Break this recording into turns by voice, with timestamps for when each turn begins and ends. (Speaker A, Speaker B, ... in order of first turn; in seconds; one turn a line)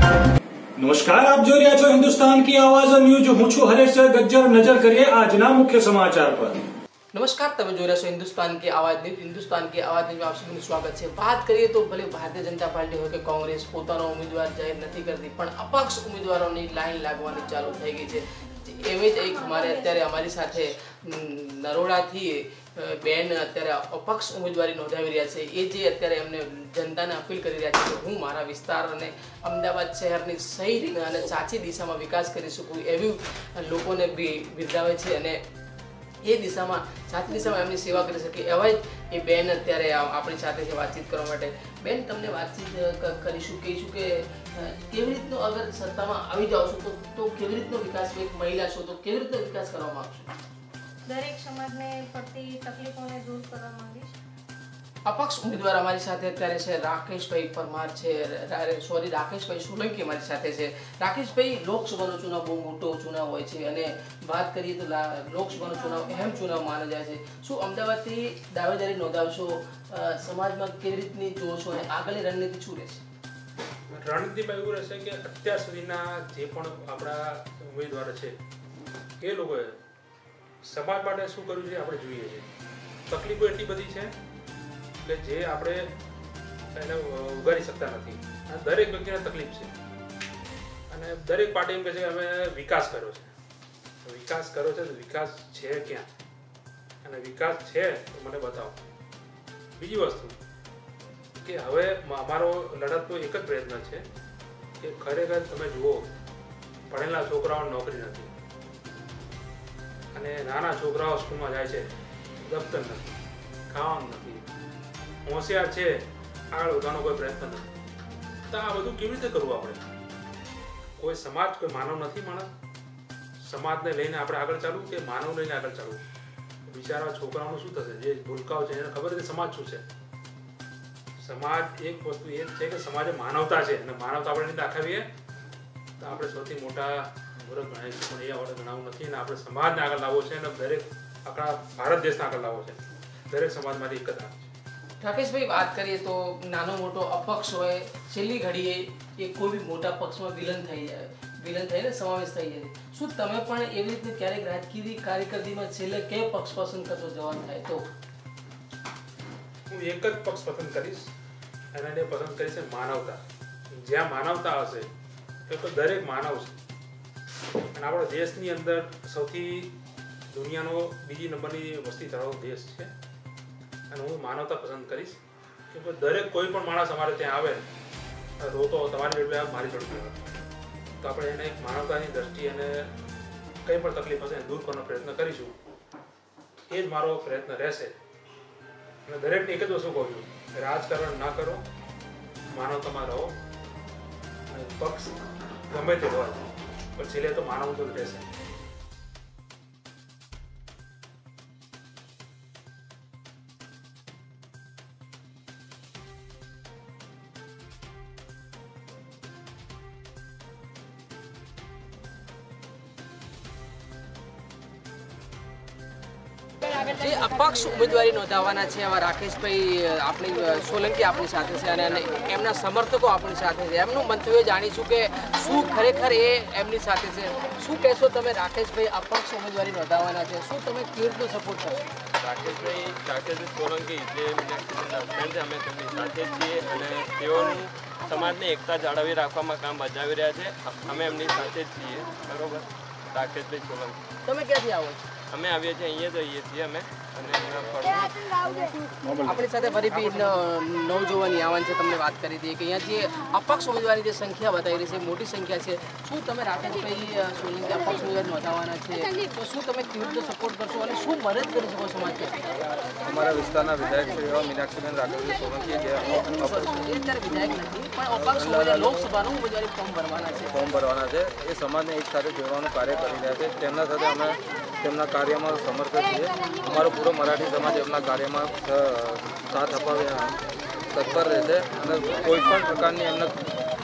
Speaker A: 0.8-6.6
Speaker B: 7.1-35.4
Speaker B: 36.2-50.3
Speaker C: 51.1-54.1
Speaker B: 55.0-73.0
Speaker D: 73.9-78.4
Speaker D: 79.2-79.8
Speaker D: 80.7-82.5
Speaker D: 83.1-84.1
Speaker D: 85.0-85.9
Speaker D: 86.8-89.7
Speaker D: 90.9-93.3
Speaker D: 94.0-96.1
Speaker D: 97.0-98.8
Speaker D: 99.8-100.4
Speaker D: 101.4-104.0
Speaker D: 104.8-106.1
Speaker D: 106.9-108.3
Speaker D: 110.1-113.1
Speaker D: 113.7-114.5
Speaker D: 115.3-117.7
Speaker D: 118.5-119.8
Speaker D: 121.0-122.5
Speaker D: 123.5-126.0
Speaker D: 126.7-129.9
Speaker D: 131.2-135.1
Speaker D: 136.0-144.5
Speaker B: 145.0-157.9
Speaker D: 159.7-161.1
Speaker D: 161.7-163.2
Speaker D: 163.8-164.9
Speaker D: 165.5-166.6
Speaker D: 167.8-169.7
Speaker D: 170.3-172.9
Speaker D: 173.9-175.2
Speaker D: 175.7-177.6
Speaker D: 178.4-180.2
Speaker D: 181.0-182.8
Speaker D: 183.7-185.6
Speaker D: 186.7-188.0
Speaker D: 189.1-191.7
Speaker D: 192.6-193.3
Speaker D: 194.5-195.2
Speaker D: 195.7-196.4
Speaker D: 197.0-198.3
Speaker B: 216.8-231.8
Speaker E: 232.2-244.0
Speaker B: 244.2-245.0
Speaker E: 245.3-248.1
Speaker B: 249.2-262.4
Speaker F: 263.1-266.6
Speaker B: 266.0-270.5
Speaker F: 268.3-268.9
Speaker F: 270.5-280.4
Speaker F: 280.9-283.4